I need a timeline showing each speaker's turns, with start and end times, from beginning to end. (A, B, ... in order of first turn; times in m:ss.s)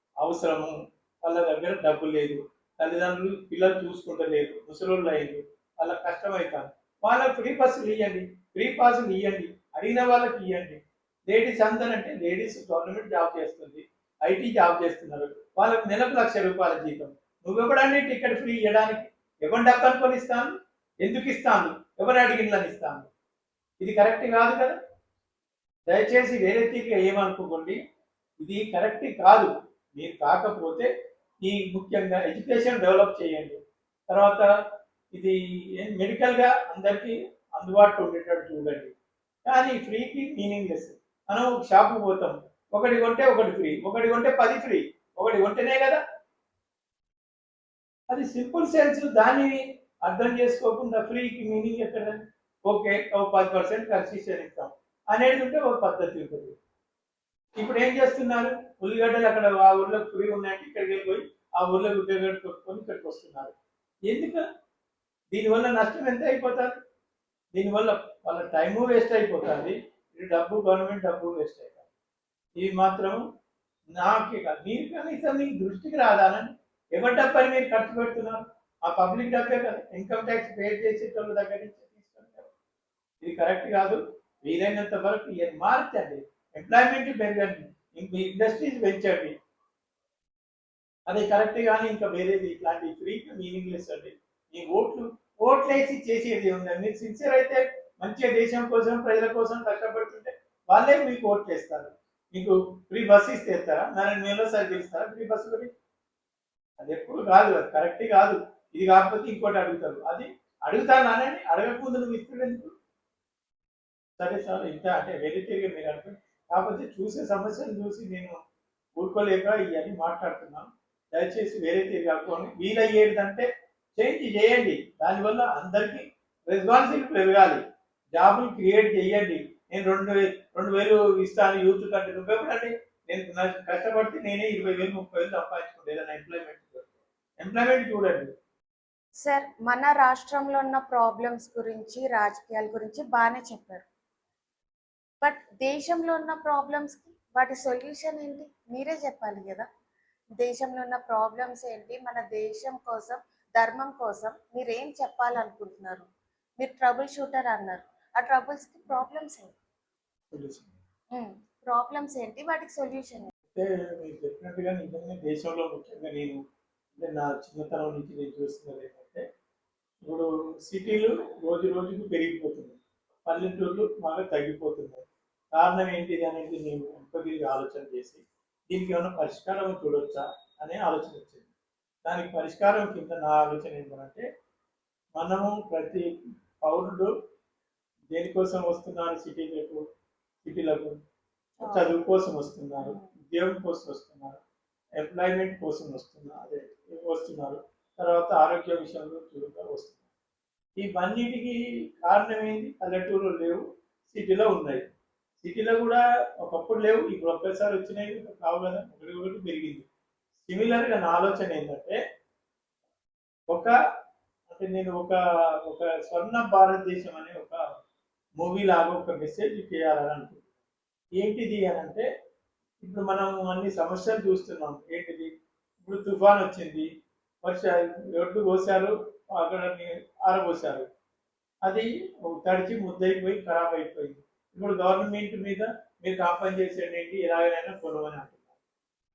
0:00.2-0:23.1 A
0:23.8-0:24.8 A
0:25.9-0:27.8 A
0:28.4-0:30.9 A
0:31.4-0:34.5 A
0:35.1-0:38.9 A
0:39.5-0:46.0 A
0:48.1-0:56.6 A
0:57.6-1:03.6 A
1:04.1-1:04.4 A
1:05.3-1:06.8 A
1:07.5-1:11.9 A
1:12.6-1:13.2 A
1:13.9-1:22.5 A
1:23.2-1:29.4 A
1:31.1-1:45.7 A
1:46.8-1:52.7 A
1:54.2-1:58.4 A
1:59.0-2:07.6 A
2:08.1-2:18.3 A
2:19.2-2:23.9 B
2:25.2-2:29.7 B
2:30.4-2:36.1 B
2:36.6-2:39.6 B
2:40.3-2:40.7 A
2:41.1-2:43.3 B
2:43.5-2:46.4 A
2:47.0-2:49.2 A
2:50.1-3:01.5 A
3:02.0-3:04.2 A
3:05.2-3:06.1 A
3:06.6-3:07.1 A
3:08.1-3:09.8 A
3:10.4-3:10.9 A
3:11.6-3:11.9 B
3:11.6-3:14.4 A
3:12.8-3:13.1 B
3:15.0-3:20.0 A
3:20.8-3:24.8 A
3:25.4-3:29.9 A
3:30.5-3:32.0 A
3:34.5-3:37.6 A
3:38.4-3:40.5 A
3:41.2-3:42.1 A
3:42.8-3:45.3 A
3:45.8-3:46.9 A
3:47.4-3:50.9 A
3:51.7-3:58.6 A